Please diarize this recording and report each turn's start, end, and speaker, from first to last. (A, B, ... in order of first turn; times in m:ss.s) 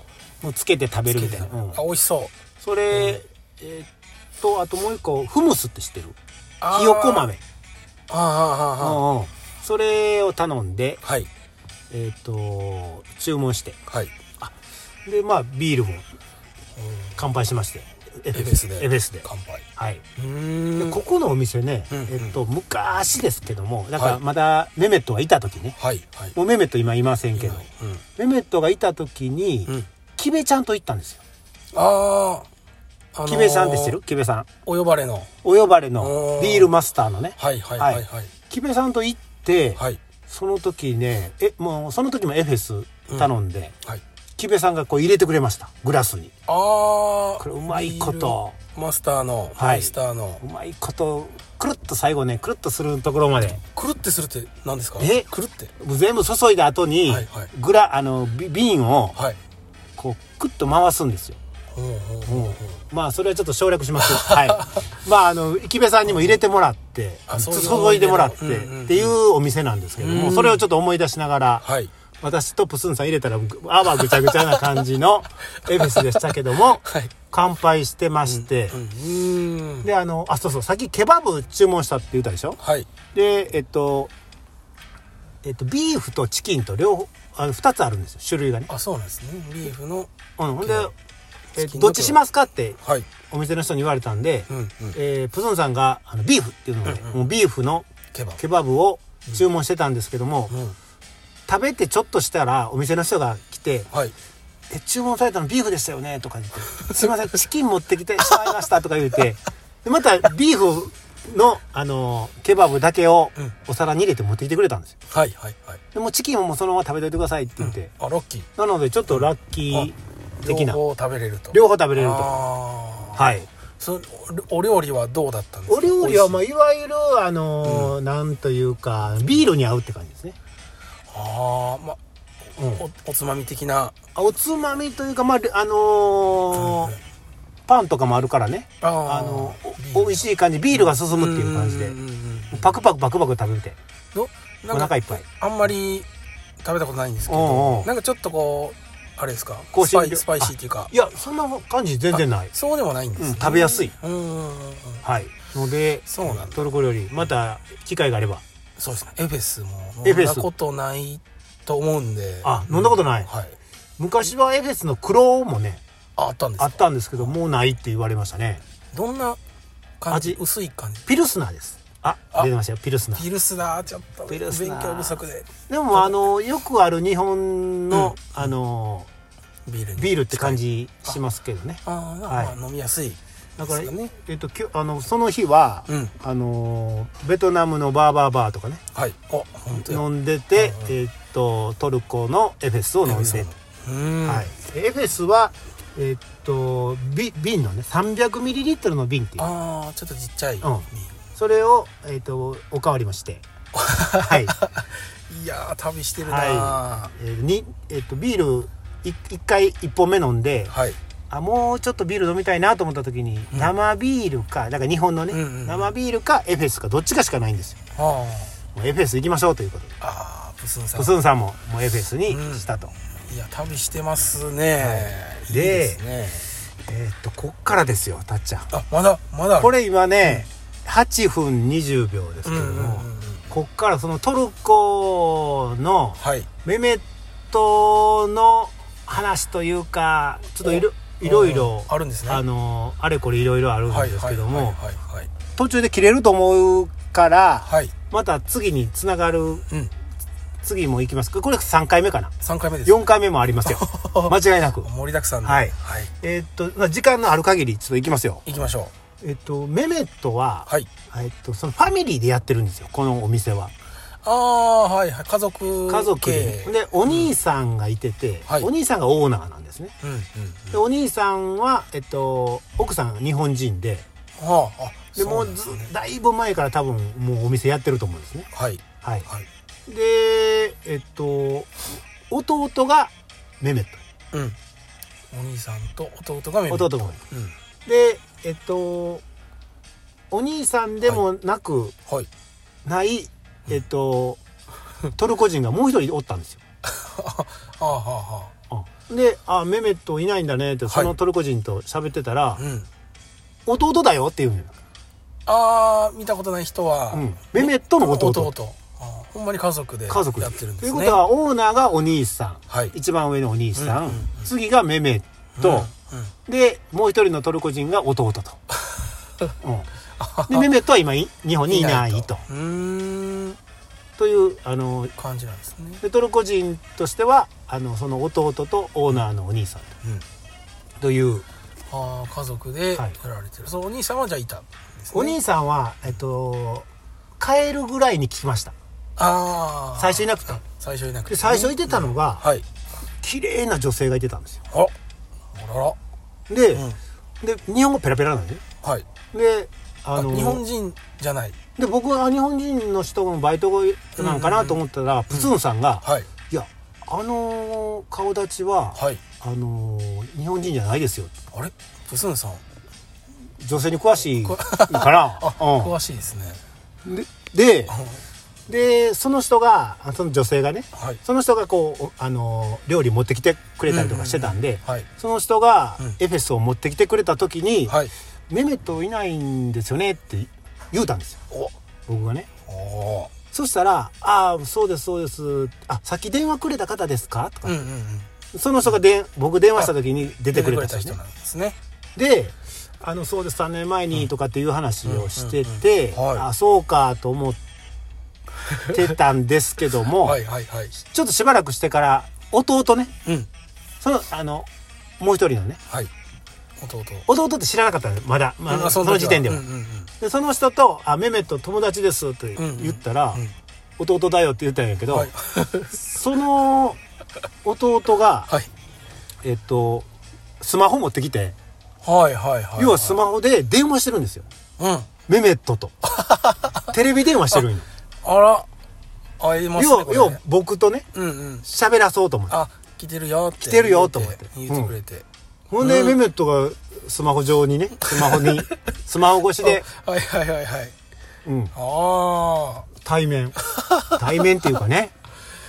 0:00.4-0:01.8 A
0:01.1-0:02.3 B
0:02.6-0:03.9 A
0:02.9-0:03.2 B
0:04.4-0:06.2 A
0:06.6-0:07.3 B
0:06.7-0:07.4 A
0:08.1-0:09.0 B
0:08.8-0:11.0 A
0:11.0-0:11.3 B
0:11.9-0:13.8 A
0:13.9-0:14.1 B
0:15.1-0:16.1 A
0:16.8-0:17.2 B
0:17.2-0:20.0 A
0:18.3-0:19.6 B
0:20.2-0:21.0 B
0:20.8-0:25.8 A
0:21.9-0:22.4 B
0:25.8-0:26.4 B
0:26.4-0:31.2 A
0:27.4-0:28.0 B
0:31.7-0:32.5 B
0:33.1-0:34.0 B
0:33.2-0:34.5 A
0:34.6-0:35.3 B
0:35.4-0:43.8 A
0:36.0-0:36.7 B
0:37.4-0:38.3 B
0:44.4-0:46.3 A
0:46.5-0:50.4 B
0:47.4-0:48.6 A
0:49.6-0:53.6 A
0:53.8-0:55.7 B
0:55.0-0:55.3 A
0:55.8-0:59.2 A
0:57.1-0:57.5 B
1:00.0-1:01.4 A
1:01.7-1:02.8 B
1:02.3-1:11.6 A
1:04.0-1:04.8 B
1:07.3-1:09.2 B
1:10.0-1:10.6 B
1:11.6-1:11.9 B
1:12.2-1:18.8 A
1:14.0-1:14.7 B
1:15.7-1:16.3 B
1:16.8-1:17.1 B
1:18.2-1:19.9 B
1:19.8-1:22.6 A
1:22.6-1:22.9 B
1:23.1-1:24.1 A
1:25.4-1:28.7 A
1:28.7-1:30.1 B
1:30.4-1:30.9 A
1:30.6-1:30.9 B
1:31.6-1:32.8 A
1:31.6-1:32.2 B
1:32.8-1:33.1 B
1:33.3-1:37.9 A
1:34.5-1:35.0 B
1:36.8-1:37.2 B
1:38.1-1:38.4 B
1:38.4-1:40.6 A
1:40.5-1:40.8 B
1:41.5-1:43.9 A
1:44.7-1:54.9 A
1:46.9-1:47.1 B
1:55.1-1:55.8 B
1:55.9-1:57.9 A
1:57.6-1:58.5 B
1:58.6-2:00.8 A
1:59.1-1:59.9 B
2:00.4-2:03.2 B
2:01.5-2:02.4 A
2:03.2-2:03.5 A
2:03.8-2:06.4 B
2:05.7-2:10.4 A
2:07.6-2:07.9 B
2:11.1-2:12.0 B
2:12.6-2:12.8 A
2:12.6-2:13.9 B
2:14.2-2:17.0 A
2:16.6-2:17.0 B
2:17.7-2:22.0 A
2:18.8-2:22.8 B
2:22.5-2:23.8 A
2:24.1-2:26.1 B
2:24.7-2:25.2 A
2:26.6-2:30.9 B
2:27.3-2:27.9 A
2:29.7-2:32.5 A
2:32.1-2:35.0 B
2:33.2-2:33.9 A
2:35.0-2:38.4 A
2:36.1-2:36.6 B
2:38.8-2:43.6 B
2:40.0-2:40.5 A
2:42.4-2:43.3 A
2:44.0-2:45.8 A
2:46.2-2:47.3 B
2:46.6-2:48.6 A
2:48.9-2:49.4 B
2:50.0-2:51.1 B
2:50.1-2:50.4 A
2:51.1-2:53.2 A
2:53.2-2:56.1 B
2:54.3-2:59.1 A
2:57.9-2:58.2 B
2:59.7-3:01.2 B
3:00.0-3:02.6 A
3:01.8-3:04.1 B
3:03.6-3:08.8 A
3:05.9-3:06.1 B
3:08.9-3:11.0 B
3:09.7-3:13.5 A
3:13.0-3:14.5 B
3:14.2-3:19.5 A
3:19.4-3:21.1 B
3:20.6-3:23.4 A
3:23.8-3:27.1 B
3:24.2-3:24.6 A
3:26.2-3:30.8 A
3:30.7-3:31.0 B
3:31.3-3:37.8 A
3:35.3-3:35.9 B
3:37.9-3:38.6 B
3:38.7-3:39.9 A
3:40.0-3:41.1 B
3:41.0-3:42.9 A
3:42.3-3:42.7 B
3:43.3-3:46.5 B
3:44.8-3:46.0 A
3:46.9-3:48.7 A
3:48.7-3:49.7 B
3:49.6-4:04.8 A
3:52.4-3:53.4 B
3:56.2-3:56.5 B
4:00.6-4:02.4 B
4:03.9-4:05.3 B
4:05.6-4:09.7 A
4:07.6-4:07.9 B
4:10.6-4:12.3 A
4:12.4-4:13.1 B
4:12.8-4:14.9 A
4:13.6-4:16.1 B
4:15.4-4:18.4 A
4:18.5-4:18.9 B
4:19.2-4:23.7 A
4:24.2-4:27.3 B
4:25.9-4:30.0 A
4:30.0-4:30.8 B
4:30.7-4:34.1 A
4:34.4-4:35.9 B
4:35.2-4:38.5 A
4:38.5-4:39.5 B
4:39.9-4:44.0 A
4:44.3-4:44.6 B
4:45.3-4:47.5 B
4:46.7-4:47.2 A
4:47.9-4:49.2 A
4:50.3-4:52.0 A
4:52.8-4:54.4 A
4:55.1-4:56.6 A
4:56.8-4:58.5 B
4:58.7-5:02.6 A
5:00.9-5:01.1 B
5:02.6-5:02.9 B
5:03.6-5:04.7 A
5:05.5-5:11.2 B
5:07.1-5:08.5 A
5:10.1-5:15.9 A
5:13.8-5:14.5 B
5:15.6-5:16.3 B
5:16.5-5:18.6 A
5:19.6-5:19.9 A
5:20.2-5:20.7 B
5:20.5-5:22.4 A
5:21.7-5:23.6 B
5:24.2-5:25.1 A
5:25.2-5:26.0 B
5:26.0-5:30.0 A
5:31.0-5:31.5 A
5:31.9-5:35.4 B
5:35.1-5:36.9 A
5:37.4-5:38.8 A
5:39.2-5:42.6 B
5:40.0-5:40.6 A
5:41.3-5:42.5 A
5:43.2-5:44.6 A
5:45.5-5:46.0 B
5:46.5-5:46.9 A
5:46.7-5:47.0 B
5:47.4-5:48.6 A
5:48.8-5:49.1 B
5:49.3-5:50.6 A
5:50.1-5:51.6 B
5:51.8-6:01.3 A
5:54.2-5:55.5 B
5:56.0-5:56.3 B
5:59.0-5:59.2 B
6:01.5-6:02.6 B
6:03.6-6:05.9 A
6:04.4-6:06.6 B
6:07.0-6:08.0 A
6:07.9-6:08.2 B
6:08.7-6:18.0 A
6:13.9-6:15.1 B
6:18.5-6:21.4 A
6:22.1-6:22.5 A
6:22.7-6:23.3 B
6:23.5-6:27.8 A
6:27.6-6:28.3 B
6:28.5-6:31.2 A
6:29.8-6:31.8 B
6:32.2-6:37.6 A
6:35.0-6:36.5 B
6:38.7-6:39.0 B
6:38.8-6:40.4 A
6:40.0-6:41.0 B
6:41.0-6:43.1 A
6:44.0-6:44.7 A
6:45.2-6:45.8 A
6:46.8-6:47.3 B
6:47.3-6:49.6 A
6:48.7-6:50.1 B
6:50.2-6:53.4 A
6:52.6-6:53.5 B
6:54.0-6:55.3 A
6:55.1-6:56.1 B
6:56.1-6:57.0 A
6:57.6-6:58.5 A
6:59.4-7:00.1 A
7:00.6-7:01.6 A
7:02.0-7:03.2 B
7:02.8-7:04.5 A
7:04.8-7:05.1 B
7:05.3-7:06.1 A
7:06.1-7:06.9 B
7:06.8-7:07.9 A
7:08.2-7:08.7 B
7:09.4-7:10.4 B
7:09.8-7:11.1 A
7:11.1-7:11.7 B
7:11.6-7:12.6 A
7:12.5-7:15.2 B
7:13.6-7:14.9 A
7:15.7-7:19.9 A
7:15.8-7:16.2 B
7:18.0-7:18.8 B
7:19.6-7:21.0 B
7:21.4-7:21.7 A
7:21.7-7:22.9 B
7:23.0-7:23.6 A
7:23.6-7:24.6 B
7:24.1-7:25.1 A